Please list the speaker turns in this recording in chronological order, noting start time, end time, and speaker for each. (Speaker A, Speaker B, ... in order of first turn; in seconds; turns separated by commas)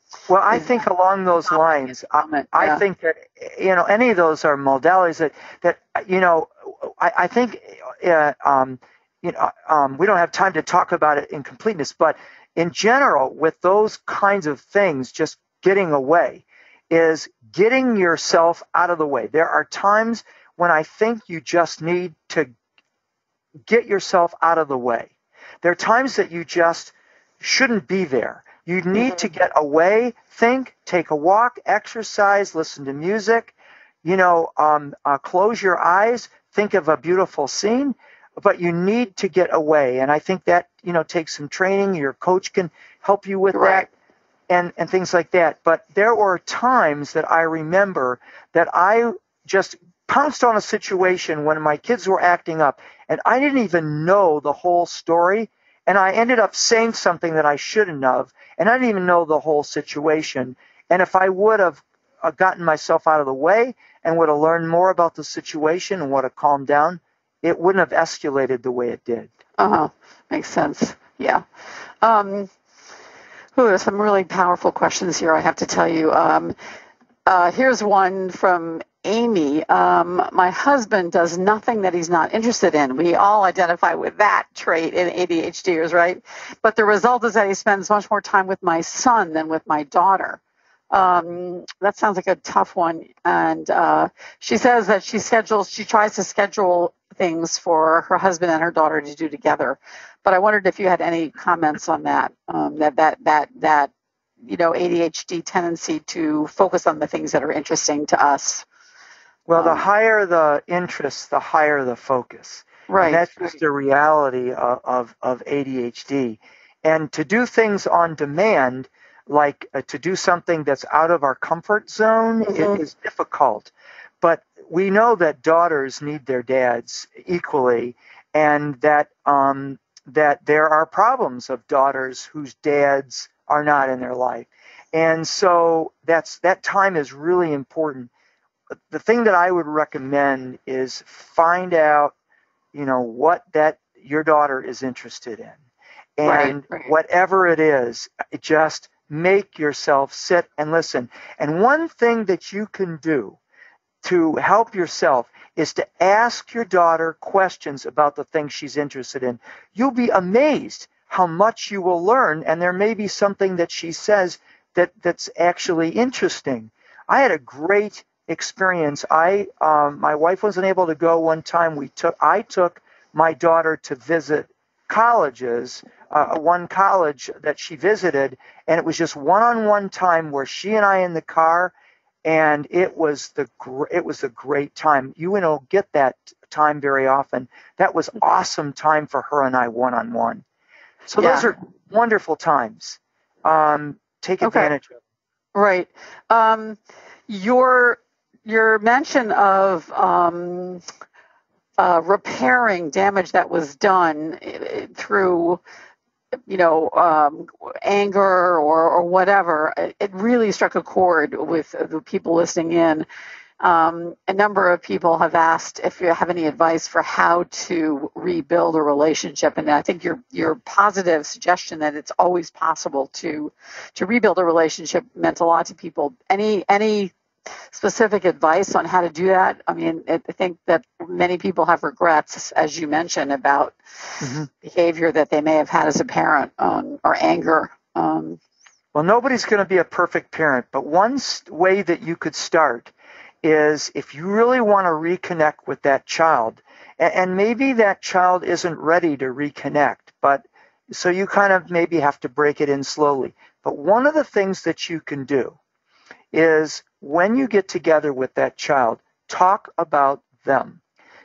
Speaker A: 0.3-22.5, Speaker B: 1.5-2.8, Speaker A: 23.6-43.9, Speaker B: 43.5-43.9, Speaker A: 44.5-69.3, Speaker B: 69.6-71.4, Speaker B: 72.0-72.5, Speaker B: 73.5-76.5, Speaker B: 77.3-90.4, Speaker B: 90.9-103.9, Speaker B: 104.4-108.7, Speaker A: 109.5-138.1, Speaker B: 109.5-109.8, Speaker B: 112.9-113.5, Speaker B: 122.4-122.8, Speaker A: 138.9-142.1, Speaker A: 142.7-145.6, Speaker A: 146.2-153.4, Speaker B: 146.2-146.9, Speaker A: 154.0-181.7, Speaker A: 182.2-190.4, Speaker A: 191.1-195.0, Speaker B: 191.2-191.5, Speaker B: 194.4-194.7, Speaker B: 195.5-200.8, Speaker B: 201.8-205.6, Speaker B: 206.5-213.1, Speaker B: 213.6-227.1, Speaker B: 227.7-238.4, Speaker A: 234.2-234.5, Speaker A: 238.9-242.9, Speaker A: 243.4-255.6, Speaker A: 256.3-260.8